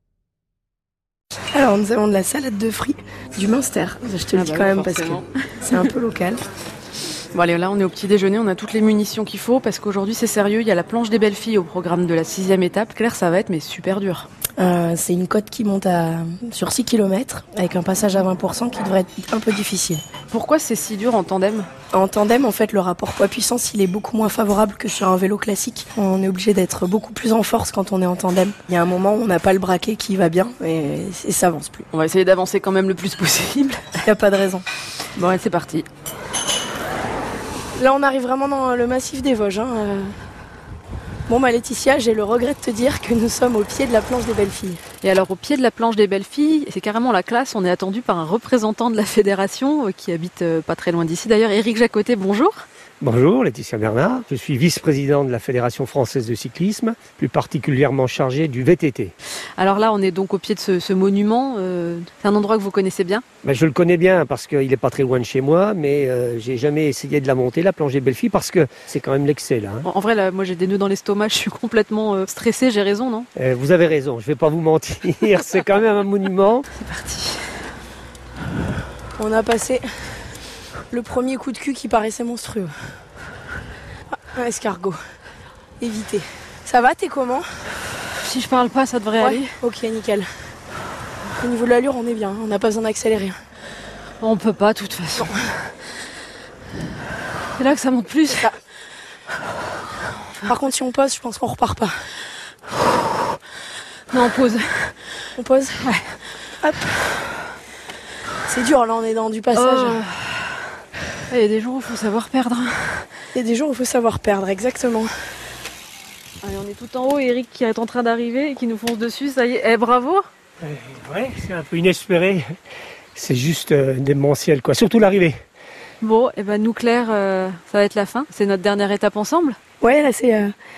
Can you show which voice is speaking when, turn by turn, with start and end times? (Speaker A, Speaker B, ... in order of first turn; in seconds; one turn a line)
Speaker A: 1.5-6.4
Speaker B: 4.3-5.2
Speaker B: 7.3-14.3
Speaker A: 14.6-20.0
Speaker B: 20.3-21.7
Speaker A: 21.9-31.9
Speaker B: 31.9-33.8
Speaker A: 34.0-34.6
Speaker B: 35.1-35.9
Speaker A: 37.8-40.1
Speaker A: 41.3-44.8
Speaker B: 45.0-52.5
Speaker C: 53.0-59.1
Speaker B: 59.6-63.2
Speaker C: 63.4-69.9
Speaker B: 69.8-73.3
Speaker C: 73.3-76.7
Speaker B: 76.7-77.4
Speaker A: 79.2-79.8
Speaker A: 80.9-82.8
Speaker A: 84.3-85.0
Speaker A: 85.8-87.5
Speaker B: 88.2-89.5
Speaker A: 89.2-90.3
Speaker A: 91.4-93.4
Speaker B: 94.2-95.3
Speaker B: 97.5-98.5
Speaker A: 100.4-101.9
Speaker B: 104.1-105.0
Speaker A: 105.4-105.8
Speaker B: 105.8-106.1
Speaker A: 106.6-106.9
Speaker A: 108.5-110.0
Speaker B: 109.5-110.4
Speaker B: 111.3-113.1
Speaker A: 113.3-115.1
Speaker B: 116.4-120.2
Speaker C: 120.6-122.4
Speaker C: 123.1-125.4
Speaker B: 126.0-129.6
Speaker A: 129.8-130.5